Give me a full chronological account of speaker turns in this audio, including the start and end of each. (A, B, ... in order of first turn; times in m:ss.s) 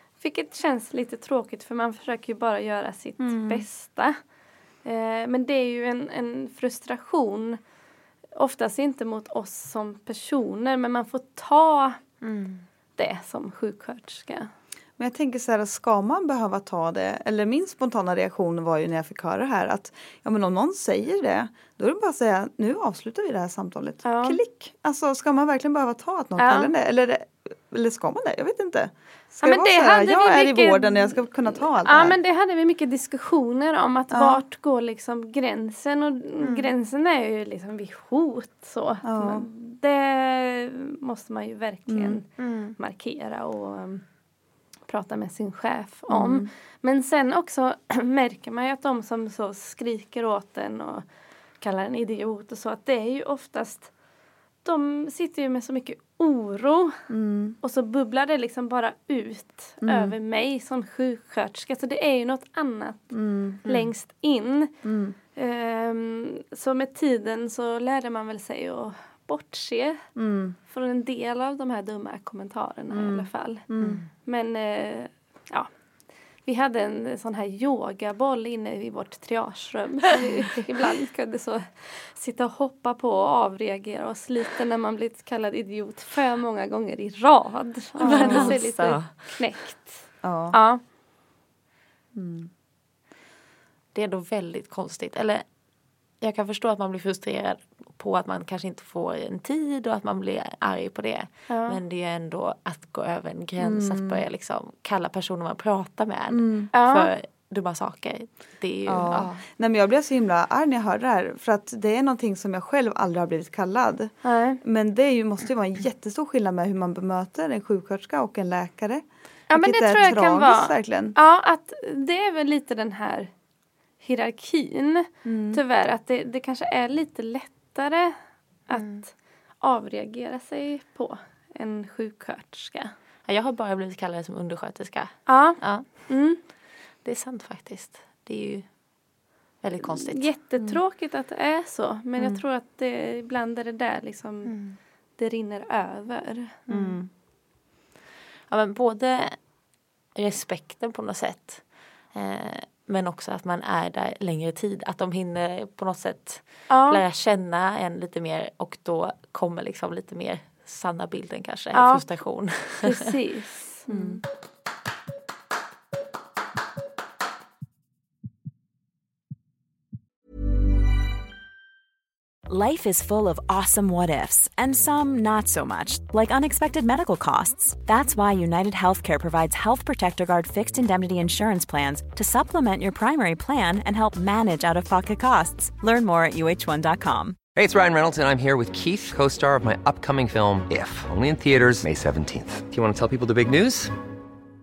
0:00.2-0:04.2 A
0:03.2-0:03.6 B
0:04.8-0:07.6 A
0:08.4-0:12.0 A
0:12.2-0:12.6 C
0:13.0-0:14.5 A
0:15.0-0:32.2 B
0:24.0-0:24.4 A
0:26.4-0:26.7 A
0:29.4-0:44.0 A
0:34.1-0:34.4 B
0:36.4-0:36.7 C
0:39.0-0:39.5 B
0:41.9-0:42.2 B
0:42.4-0:42.8 C
0:44.9-0:51.0 A
0:46.1-0:46.5 B
0:51.6-0:53.9 A
0:54.6-0:57.0 A
0:57.1-0:57.6 B
0:57.6-1:04.7 A
0:59.8-1:00.1 B
1:03.1-1:03.6 B
1:04.8-1:05.2 B
1:05.4-1:10.0 A
1:10.2-1:10.6 B
1:10.7-1:13.6 A
1:12.9-1:14.0 B
1:13.8-1:14.1 C
1:14.2-1:15.7 A
1:16.4-1:30.8 A
1:20.2-1:20.6 B
1:28.0-1:29.1 B
1:28.0-1:29.1 C
1:30.2-1:30.6 B
1:32.1-1:32.5 B
1:33.9-1:35.4 C
1:36.2-1:49.3 C
1:41.5-1:41.8 A
1:43.6-1:44.2 B
1:46.3-1:46.7 B
1:46.7-1:47.1 A
1:48.9-2:01.2 B
1:54.2-1:54.6 A
1:59.5-2:03.3 A
2:04.0-2:08.1 A
2:05.2-2:05.6 B
2:08.7-2:12.9 A
2:08.7-2:09.0 C
2:13.3-2:16.1 C
2:15.3-2:16.4 A
2:17.0-2:18.7 C
2:19.6-2:20.3 C
2:19.8-2:24.5 A
2:24.4-2:24.8 C
2:25.2-2:26.9 A
2:26.7-2:27.1 B
2:28.5-2:29.4 C
2:30.2-2:43.0 C
2:36.7-2:37.0 A
2:41.7-2:42.0 A
2:42.8-2:43.9 A
2:43.9-2:44.2 B
2:52.5-3:07.4 D
3:07.5-3:14.0 E